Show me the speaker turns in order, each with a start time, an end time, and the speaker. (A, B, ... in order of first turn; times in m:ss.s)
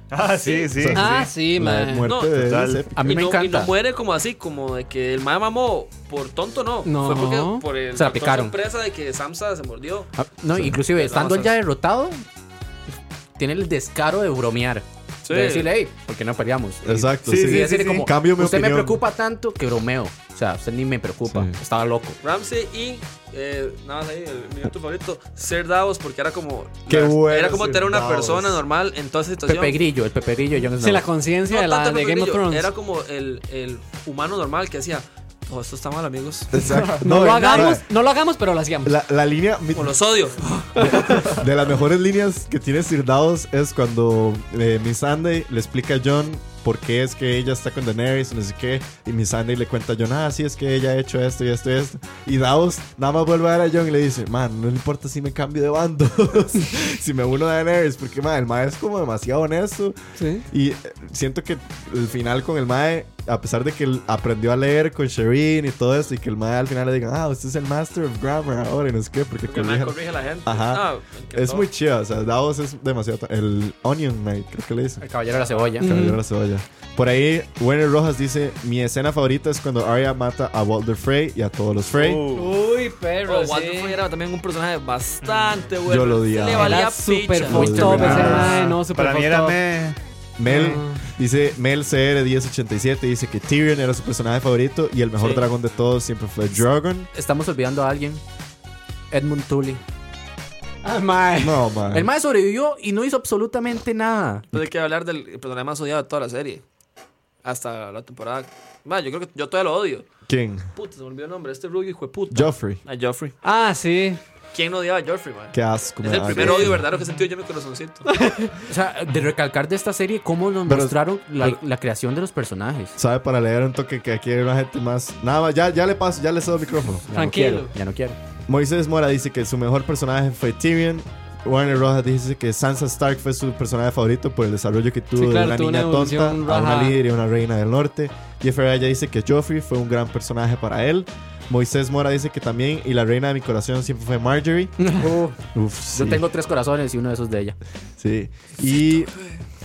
0:00.1-0:01.3 A
0:00.4-0:00.7 B
0:00.8-0:03.2 C
0:00.9-0:02.1 D
0:02.0-0:02.4 B
0:02.3-0:02.9 A
0:03.0-0:03.7 E
0:03.0-0:10.1 B
0:06.8-0:07.6 D
0:08.0-0:08.6 E
0:10.2-0:12.2 E
0:10.8-0:11.5 B
0:13.4-0:22.2 E
0:15.2-0:15.7 B
0:16.8-0:19.0 C
0:17.2-0:18.1 A
0:21.3-0:21.5 C
0:22.2-0:29.8 B
0:26.9-0:28.6 C
0:29.5-0:31.1 E
0:30.8-0:32.7 D
0:31.5-0:36.5 B
0:36.5-0:37.8 C
0:36.6-0:38.9 D
0:38.8-0:40.0 C
0:39.8-0:41.3 B
0:40.8-0:41.3 D
0:40.8-1:00.0 C
1:00.2-1:00.4 D
1:00.5-1:15.0 C
1:09.5-1:11.7 B
1:15.0-1:16.0 E
1:15.8-1:22.2 C
1:15.8-1:16.2 D
1:21.9-1:22.5 A
1:22.3-1:24.0 D
1:23.3-1:28.2 B
1:25.2-1:25.5 A
1:25.9-1:26.8 C
1:26.6-1:29.6 D
1:27.5-1:28.6 C
1:27.6-1:28.5 E
1:28.1-1:30.0 A
1:30.4-1:37.1 C
1:30.5-1:31.0 D
1:35.2-1:35.4 B
1:37.1-1:38.2 E
1:39.1-1:39.8 E
1:40.8-1:41.6 D
1:41.4-1:42.1 C
1:41.9-1:44.5 E
1:44.5-1:46.6 B
1:47.4-1:50.1 B
1:50.3-1:50.7 C
1:50.8-1:53.4 B
1:52.3-1:52.8 C
1:53.4-1:54.2 D
1:54.5-1:58.1 B
1:55.5-1:56.8 C
1:58.1-1:58.6 D
1:58.7-2:03.0 E
2:00.7-2:01.5 C
2:03.0-2:07.1 C
2:07.1-2:08.2 E
2:07.1-2:07.7 D
2:08.5-2:24.8 C
2:15.2-2:17.0 D
2:24.8-2:25.1 D
2:25.0-2:25.4 E
2:25.5-2:26.2 C
2:25.9-2:27.6 E
2:28.0-2:29.1 C